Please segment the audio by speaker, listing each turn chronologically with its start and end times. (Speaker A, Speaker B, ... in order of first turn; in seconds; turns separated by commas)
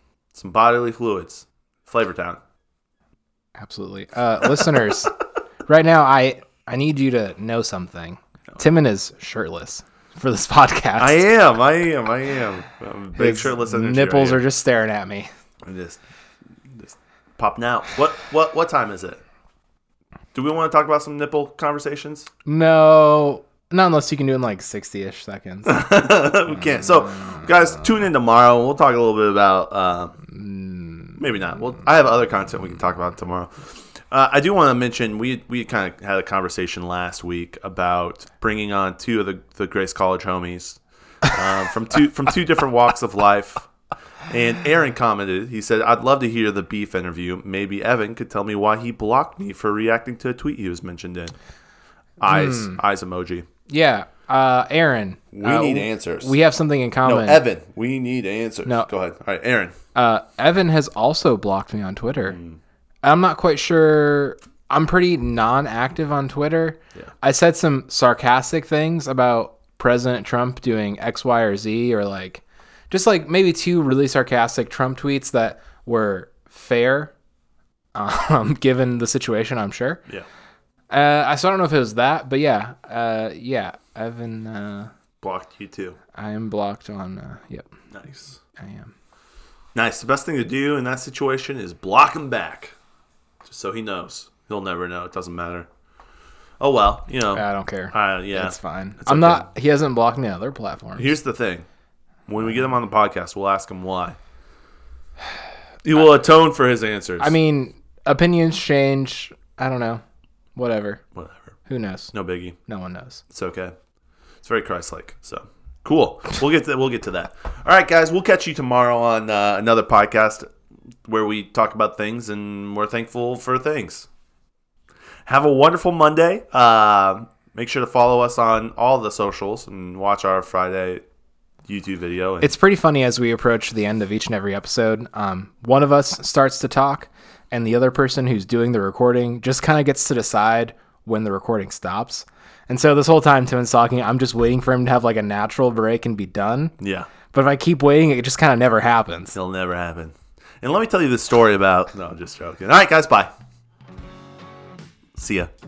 Speaker A: 0.3-2.4, Speaker B: 3.6-5.1, Speaker B: 5.7-11.2, Speaker A: 11.0-14.4, Speaker B: 13.2-15.3, Speaker A: 15.6-16.0, Speaker A: 16.7-19.2, Speaker A: 20.3-22.3, Speaker B: 22.4-25.8, Speaker A: 25.6-30.2, Speaker B: 26.6-27.4, Speaker B: 30.3-31.2, Speaker A: 31.2-43.7, Speaker A: 44.3-51.3, Speaker A: 52.2-53.5, Speaker B: 52.2-52.8, Speaker B: 53.7-57.4, Speaker A: 55.3-56.4, Speaker A: 57.0-59.7, Speaker B: 59.9-62.4, Speaker A: 62.3-62.6, Speaker B: 63.0-77.1, Speaker B: 77.9-80.0, Speaker B: 80.9-84.9, Speaker A: 85.2-86.0, Speaker B: 86.1-87.7, Speaker A: 87.9-88.4, Speaker B: 88.5-88.9, Speaker A: 89.7-92.7, Speaker A: 93.4-95.7, Speaker A: 96.6-99.4, Speaker B: 97.3-101.1, Speaker A: 101.0-101.7, Speaker A: 102.3-104.2, Speaker A: 105.8-107.3, Speaker B: 107.2-110.0, Speaker B: 110.5-111.0, Speaker A: 111.1-111.5, Speaker B: 111.7-112.1, Speaker A: 112.1-112.5, Speaker B: 112.7-113.2, Speaker A: 113.3-113.7, Speaker A: 114.4-120.5, Speaker A: 121.0-124.1, Speaker A: 125.3-131.0, Speaker A: 131.7-132.5, Speaker B: 132.4-146.7, Speaker A: 146.8-147.1, Speaker B: 147.3-149.3, Speaker A: 149.3-153.3, Speaker A: 155.2-155.5